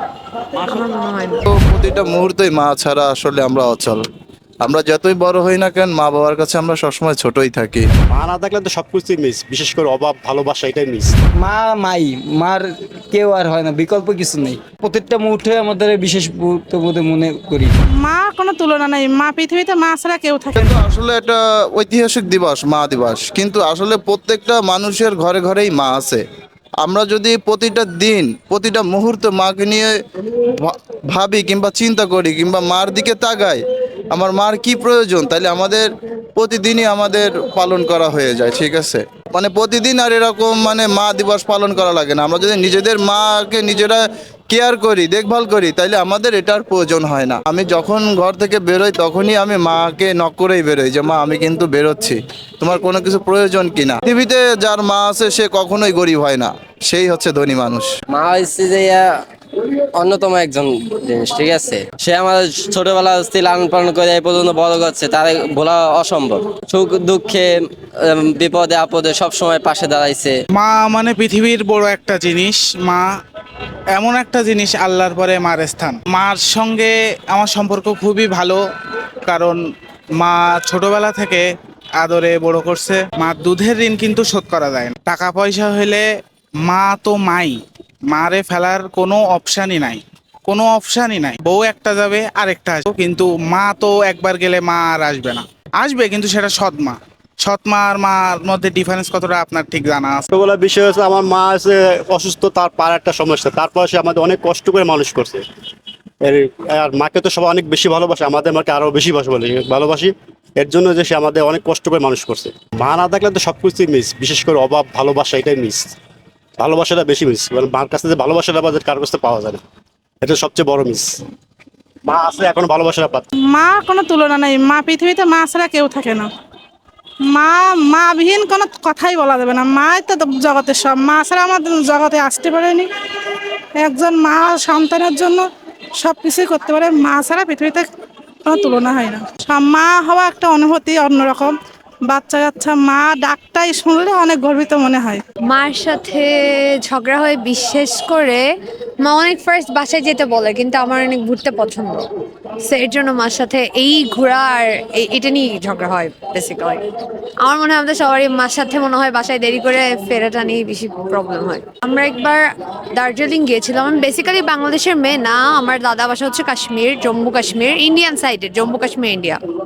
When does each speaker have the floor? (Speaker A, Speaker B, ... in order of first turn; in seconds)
Speaker A: 0.7-1.5, 145.5-146.3, 146.8-148.4, 149.0-152.1, 152.7-156.8, 157.4-162.4, 163.0-169.4
Speaker B: 1.5-4.0, 4.6-7.8, 20.6-26.2, 26.8-33.6, 34.1-57.9
Speaker C: 8.1-11.2, 100.3-105.4, 106.2-116.0, 116.6-119.6, 120.2-121.2, 122.1-123.3
Speaker D: 11.4-17.7
Speaker E: 18.0-20.7, 123.5-126.3, 127.3-132.9, 133.8-135.4, 136.0-137.9, 138.4-141.6, 142.1-145.2
Speaker F: 58.1-59.0, 60.0-67.5, 68.1-70.4
Speaker G: 70.5-73.1, 74.0-78.6, 79.3-79.6, 80.2-81.5, 82.0-86.0, 86.7-100.2